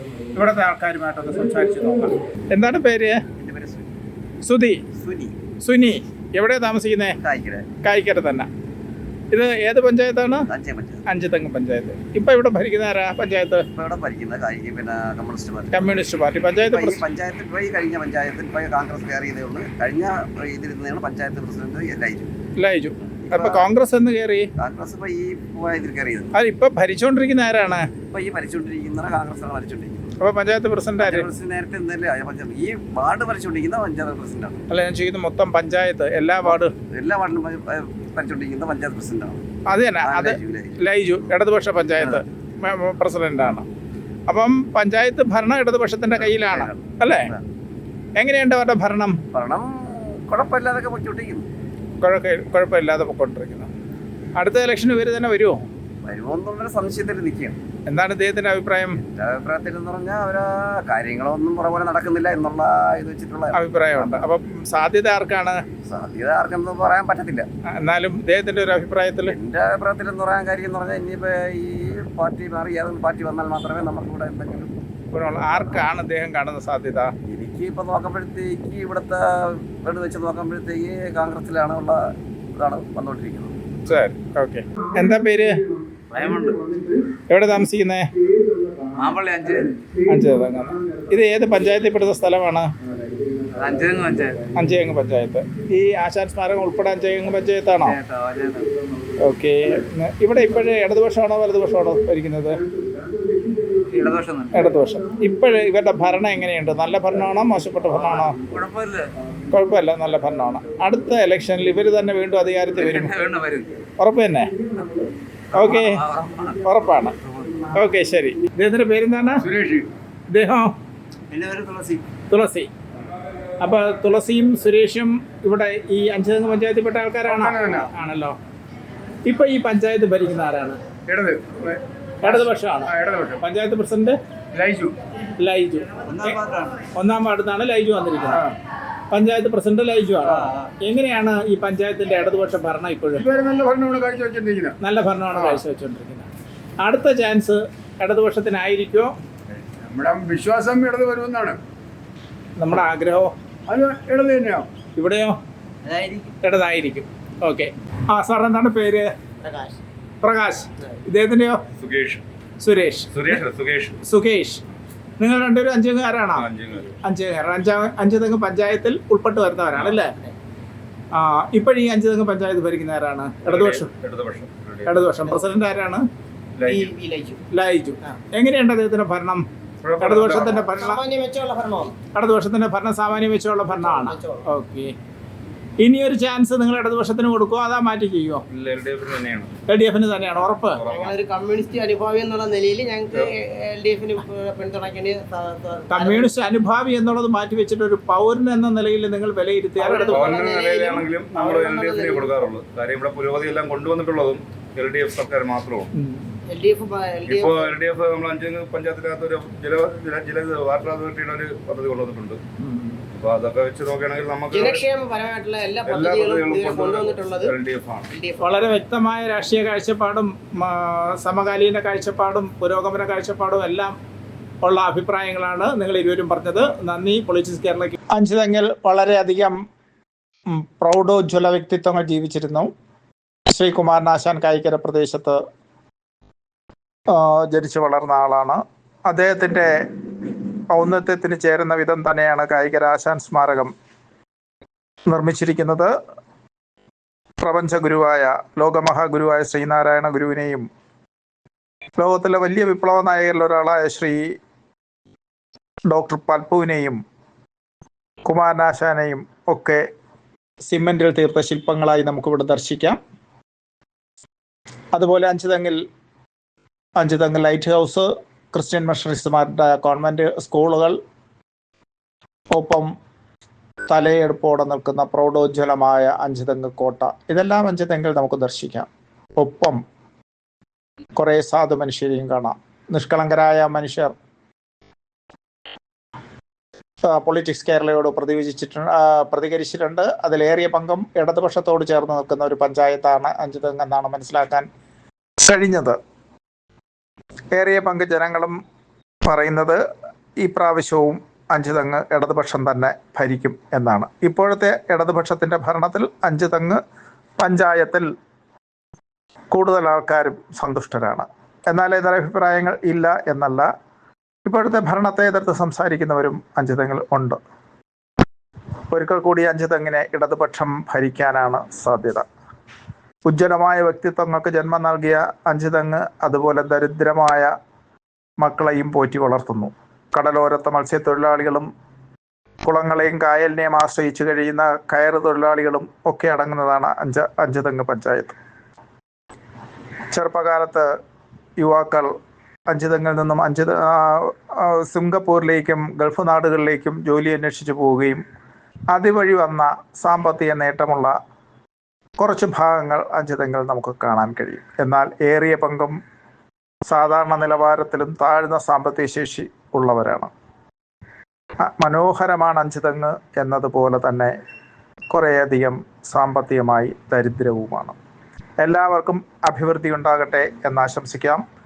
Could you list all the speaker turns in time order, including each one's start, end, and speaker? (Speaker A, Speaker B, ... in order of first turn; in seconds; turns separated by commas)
Speaker A: 0.3-3.2, Speaker B: 3.4-3.9, Speaker A: 4.4-4.8, Speaker B: 5.0-5.3, Speaker A: 5.6-7.2, Speaker B: 7.2-7.7, Speaker A: 7.8-8.5, Speaker A: 9.3-10.5, Speaker B: 10.5-11.0, Speaker A: 11.1-13.7, Speaker B: 13.7-16.0, Speaker A: 15.7-17.0, Speaker B: 16.7-22.3, Speaker A: 22.6-24.5, Speaker B: 23.2-23.7, Speaker B: 24.6-26.3, Speaker A: 26.3-27.9, Speaker B: 28.1-30.1, Speaker A: 30.2-31.3, Speaker B: 31.0-34.6, Speaker A: 34.7-36.7, Speaker B: 36.4-39.5, Speaker A: 39.7-43.6, Speaker B: 40.0-41.3, Speaker A: 44.3-47.3, Speaker B: 46.1-47.4, Speaker A: 48.1-49.2, Speaker B: 49.3-51.5, Speaker A: 52.0-53.7, Speaker A: 54.4-55.6, Speaker B: 56.0-57.5, Speaker A: 57.9-59.0, Speaker B: 59.0-64.2, Speaker A: 63.5-65.6, Speaker B: 65.8-67.5, Speaker A: 67.7-69.3, Speaker B: 69.2-74.7, Speaker A: 75.1-77.1, Speaker B: 77.3-82.0, Speaker B: 82.5-83.5, Speaker A: 83.8-85.6, Speaker C: 86.1-86.6, Speaker A: 87.3-88.1, Speaker C: 89.0-89.8, Speaker A: 90.1-92.7, Speaker C: 93.6-94.4, Speaker A: 94.5-98.0, Speaker C: 97.8-98.7, Speaker A: 99.2-102.6, Speaker C: 103.8-104.7, Speaker A: 104.5-108.4, Speaker C: 108.5-109.1, Speaker A: 109.5-113.2, Speaker C: 112.7-113.7, Speaker A: 114.0-114.5, Speaker A: 115.5-116.0, Speaker C: 115.7-116.6, Speaker A: 116.6-117.2, Speaker A: 117.7-119.5, Speaker D: 119.4-119.9, Speaker A: 120.3-120.7, Speaker B: 121.4-122.0, Speaker A: 122.3-122.7, Speaker A: 123.6-128.4, Speaker D: 127.2-127.9, Speaker A: 129.2-130.8, Speaker D: 131.1-133.4, Speaker A: 132.2-134.2, Speaker D: 134.5-134.9, Speaker A: 135.4-136.4, Speaker B: 136.2-136.7, Speaker A: 136.9-138.5, Speaker A: 139.1-143.2, Speaker D: 143.2-144.8, Speaker A: 144.8-146.3, Speaker D: 145.3-145.6, Speaker A: 146.8-149.1, Speaker D: 149.8-151.6, Speaker A: 152.6-153.3, Speaker D: 153.7-154.7, Speaker A: 155.0-155.4, Speaker C: 155.9-156.2, Speaker A: 156.4-159.1, Speaker E: 159.4-159.8, Speaker A: 160.2-161.6, Speaker F: 161.8-162.2, Speaker A: 162.6-163.4, Speaker F: 163.1-164.0, Speaker A: 164.1-164.6, Speaker A: 165.2-166.5, Speaker F: 166.3-167.0, Speaker A: 167.0-170.1, Speaker A: 171.1-173.9, Speaker F: 173.4-175.1, Speaker A: 174.8-176.0, Speaker F: 176.6-176.9, Speaker E: 176.6-177.4, Speaker A: 177.5-179.4, Speaker F: 179.8-180.6, Speaker A: 180.0-181.0, Speaker E: 180.3-181.9, Speaker A: 182.1-184.9, Speaker E: 183.8-184.4, Speaker A: 185.8-188.4, Speaker F: 188.5-189.5, Speaker A: 189.7-190.8, Speaker F: 190.7-191.2, Speaker E: 190.9-196.3, Speaker A: 195.9-200.3, Speaker E: 199.8-202.4, Speaker F: 200.1-205.9, Speaker A: 205.9-206.3, Speaker E: 206.5-207.7, Speaker F: 207.2-212.4, Speaker A: 212.6-213.0, Speaker F: 213.1-214.9, Speaker E: 214.5-217.5, Speaker F: 215.8-218.1, Speaker E: 218.1-218.6, Speaker A: 218.4-223.9, Speaker A: 224.6-229.6, Speaker A: 230.5-232.7, Speaker A: 233.5-235.4, Speaker A: 237.1-239.7, Speaker A: 240.7-243.7, Speaker A: 245.1-245.9, Speaker A: 247.4-250.7, Speaker A: 252.0-254.2, Speaker A: 255.9-257.0, Speaker A: 258.2-259.8, Speaker A: 260.7-263.0, Speaker A: 264.9-265.8, Speaker A: 267.0-271.0, Speaker A: 272.5-272.9, Speaker A: 273.9-279.8, Speaker A: 281.1-284.1, Speaker A: 287.1-294.7, Speaker A: 295.4-296.0, Speaker A: 297.5-298.6, Speaker A: 299.2-299.8, Speaker A: 300.4-306.8, Speaker A: 307.4-308.1, Speaker A: 309.5-313.7, Speaker A: 314.4-317.4, Speaker A: 318.9-322.2, Speaker A: 323.2-327.5, Speaker A: 328.4-331.7, Speaker A: 332.6-338.3, Speaker A: 340.1-340.9, Speaker A: 341.6-342.1, Speaker A: 342.7-348.2, Speaker A: 348.9-351.1, Speaker A: 352.2-355.9, Speaker A: 356.9-360.3, Speaker A: 361.7-364.3, Speaker A: 365.1-367.9, Speaker A: 368.6-371.4